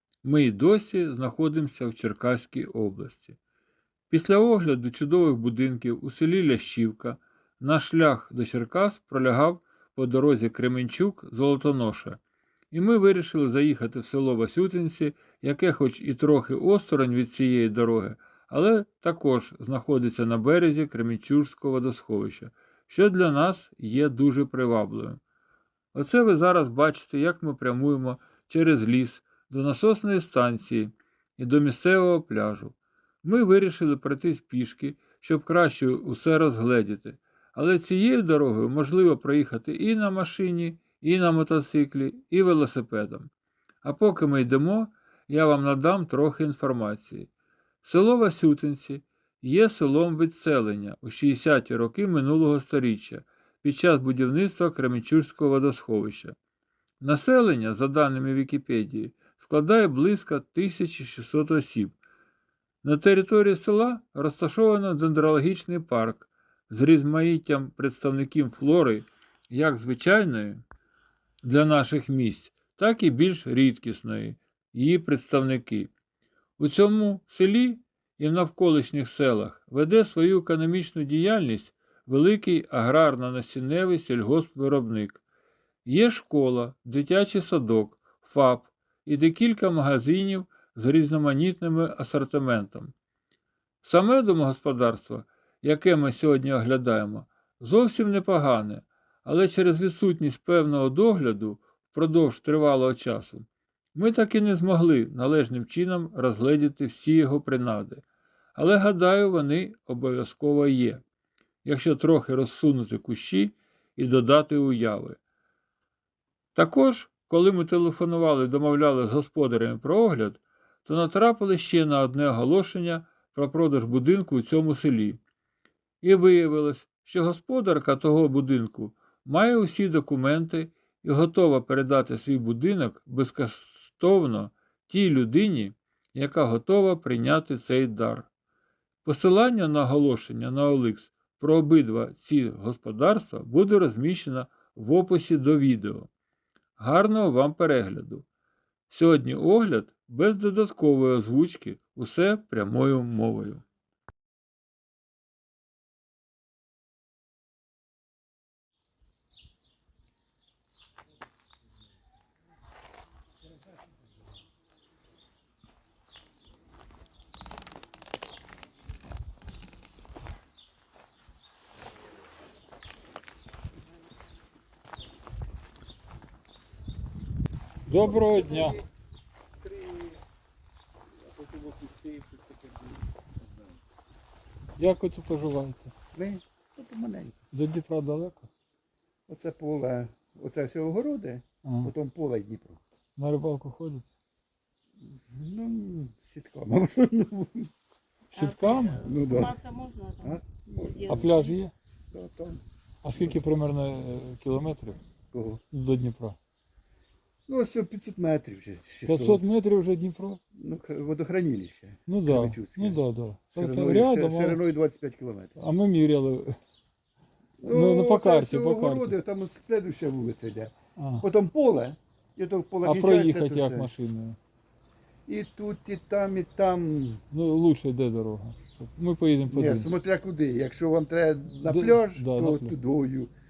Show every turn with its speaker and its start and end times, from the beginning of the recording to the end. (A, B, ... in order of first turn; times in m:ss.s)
0:00.2-0:03.4 A
0:04.1-0:12.2 A
0:12.7-0:25.2 A
0:25.9-0:43.3 A
0:43.8-0:47.3 A
0:47.8-0:56.4 A
0:57.0-1:02.0 A
1:02.8-1:10.6 A
1:11.4-1:15.9 A
1:16.6-1:25.2 A
1:25.8-1:32.9 A
1:33.8-1:48.0 A
1:48.6-1:51.0 A
1:51.6-1:55.2 A
1:56.6-2:05.2 A
2:06.0-2:18.3 A
2:19.0-2:26.1 A
2:26.8-2:28.3 A
2:28.9-2:33.6 A
2:57.9-2:58.8 A
2:58.0-2:58.9 B
2:59.6-3:00.2 B
3:01.2-3:03.8 B
3:04.8-3:05.9 A
3:06.1-3:07.3 B
3:07.5-3:08.5 A
3:09.3-3:12.8 B
3:11.6-3:11.9 A
3:13.2-3:14.1 A
3:15.0-3:17.7 B
3:18.3-3:19.1 A
3:18.4-3:20.4 C
3:18.9-3:19.6 B
3:20.2-3:21.2 B
3:21.0-3:21.5 C
3:21.1-3:21.7 A
3:22.1-3:22.6 B
3:23.0-3:25.0 A
3:25.3-3:25.6 B
3:25.7-3:26.4 A
3:27.5-3:29.4 B
3:29.1-3:30.4 A
3:30.6-3:33.0 B
3:32.1-3:34.6 A
3:33.5-3:35.6 B
3:35.6-3:36.6 A
3:37.6-3:43.9 B
3:37.7-3:39.2 A
3:41.0-3:41.2 A
3:42.8-3:44.4 A
3:45.3-3:47.2 B
3:47.3-3:49.9 A
3:49.5-3:53.3 B
3:51.6-3:52.8 A